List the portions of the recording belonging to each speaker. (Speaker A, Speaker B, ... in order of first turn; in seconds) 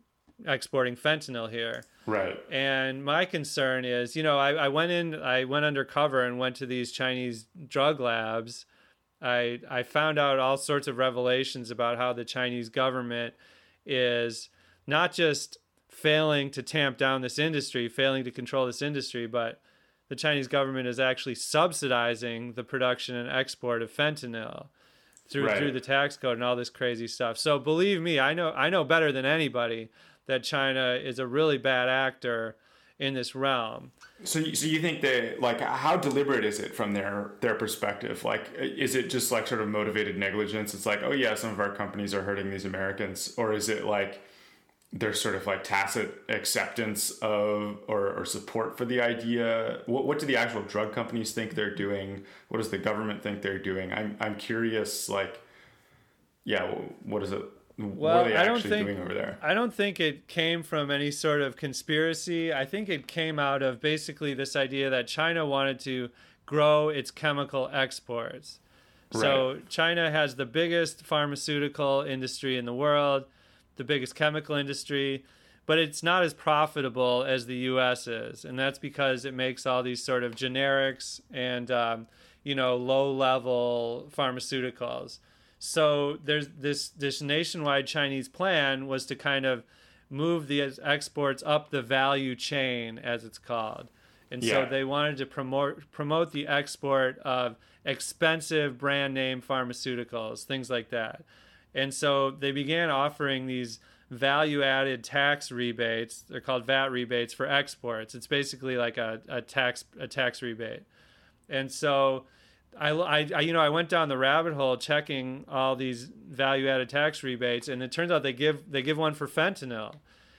Speaker A: 0.4-1.9, 2.5-8.7, 9.2-24.7, 25.3-33.9, 58.0-68.6, 69.1-110.9, 111.5-120.0
Speaker B: 2.1-2.4, 25.4-25.7, 34.2-44.2, 44.9-55.4, 56.5-59.4, 69.1-69.5, 94.4-94.7